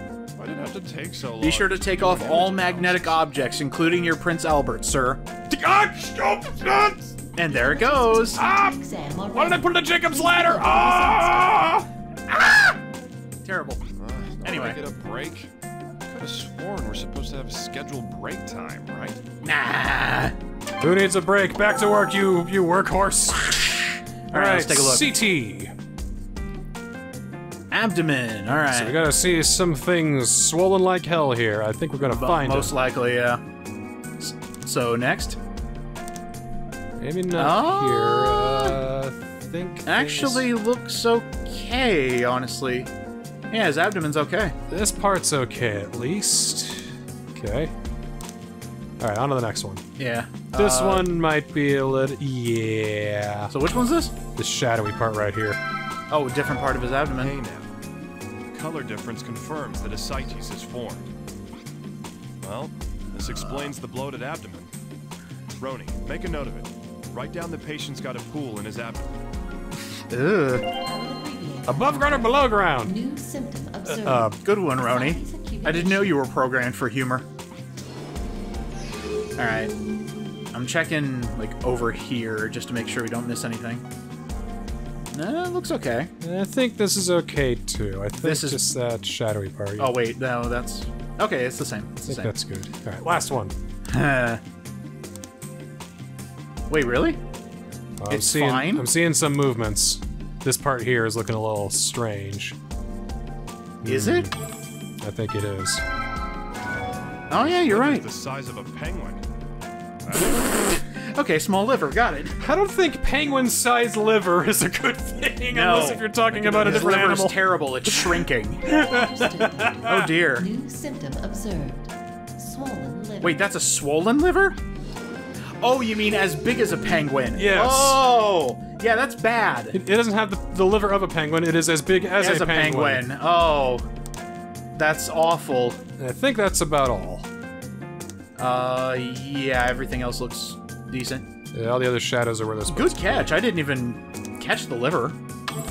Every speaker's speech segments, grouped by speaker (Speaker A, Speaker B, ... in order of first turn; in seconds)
Speaker A: 0.4-3.2, 14.0-15.5, 16.1-19.2, 57.2-57.7, 58.5-61.1, 62.4-64.7, 65.6-69.1, 107.4-109.2, 110.0-110.4
Speaker B: 1.4-5.2, 7.4-8.4, 12.3-12.6, 13.4-13.8, 14.4-14.8, 19.4-20.4, 24.3-25.1, 27.7-29.0, 32.1-33.4, 34.2-35.4, 37.4-38.8, 39.9-42.9, 43.5-44.6, 50.0-51.1, 53.5-54.1, 56.1-57.4, 63.2-63.7, 70.1-70.7, 74.4-77.3, 79.4-79.7, 80.5-83.8, 85.1-86.1, 88.2-88.7, 89.8-92.3, 93.9-94.4, 96.7-97.2, 98.1-98.9, 103.8-104.3, 107.3-108.1, 110.2-112.4, 115.5-118.7, 119.8-120.5, 123.2-124.6, 125.6-129.8, 132.2-133.9, 134.8-135.8, 138.4-141.3, 142.7-145.2
Speaker C: 5.5-7.1, 8.3-8.8, 9.3-11.9, 20.8-23.7, 24.3-25.7, 28.7-32.7, 37.0-40.5, 44.7-47.7, 49.0-49.8, 50.5-53.5, 54.4-55.6, 71.7-73.0, 73.8-74.4, 86.2-90.0, 92.0-93.5, 98.0-102.6, 103.8-104.3, 105.0-105.8, 112.4-120.1, 127.4-128.0, 129.7-133.1, 136.0-137.3, 141.5-143.3
Speaker D: 7.4-11.8, 70.8-76.2, 118.7-123.4